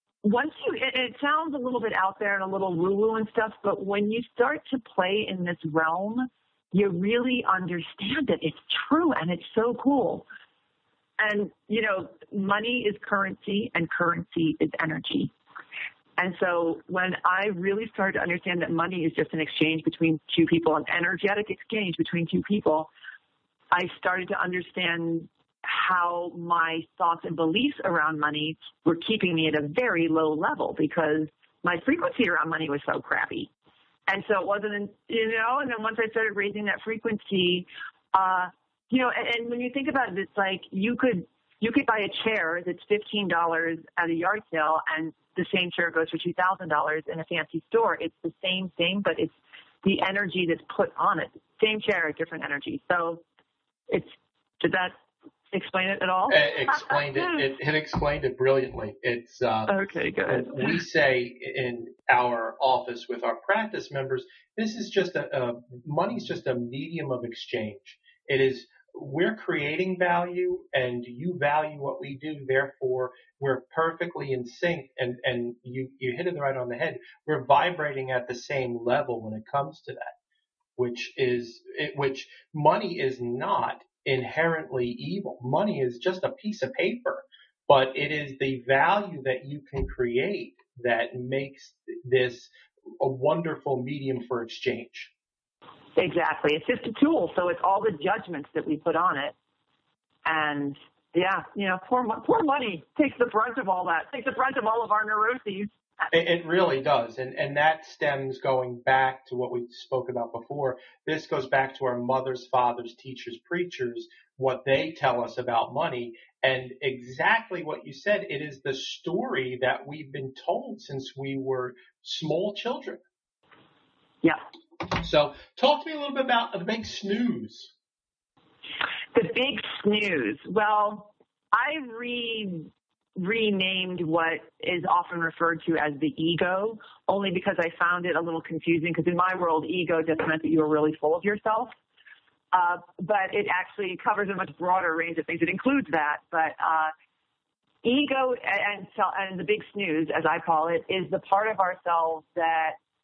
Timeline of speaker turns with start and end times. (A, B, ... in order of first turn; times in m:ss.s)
0:00.2-0:10.2 A
0:11.2-0:15.3 A
0:16.2-0:22.9 A
0:23.7-0:33.5 A
0:34.1-0:53.2 A
0:53.9-0:54.9 A
0:55.5-0:57.3 A
0:56.3-1:20.1 B
0:59.7-1:00.8 A
1:20.8-1:35.1 B
1:36.0-1:39.3 A
1:40.2-1:45.7 A
1:46.1-2:03.0 B
2:04.9-2:07.7 B
2:09.1-2:21.7 A
2:22.5-2:26.9 A
2:27.8-2:32.8 A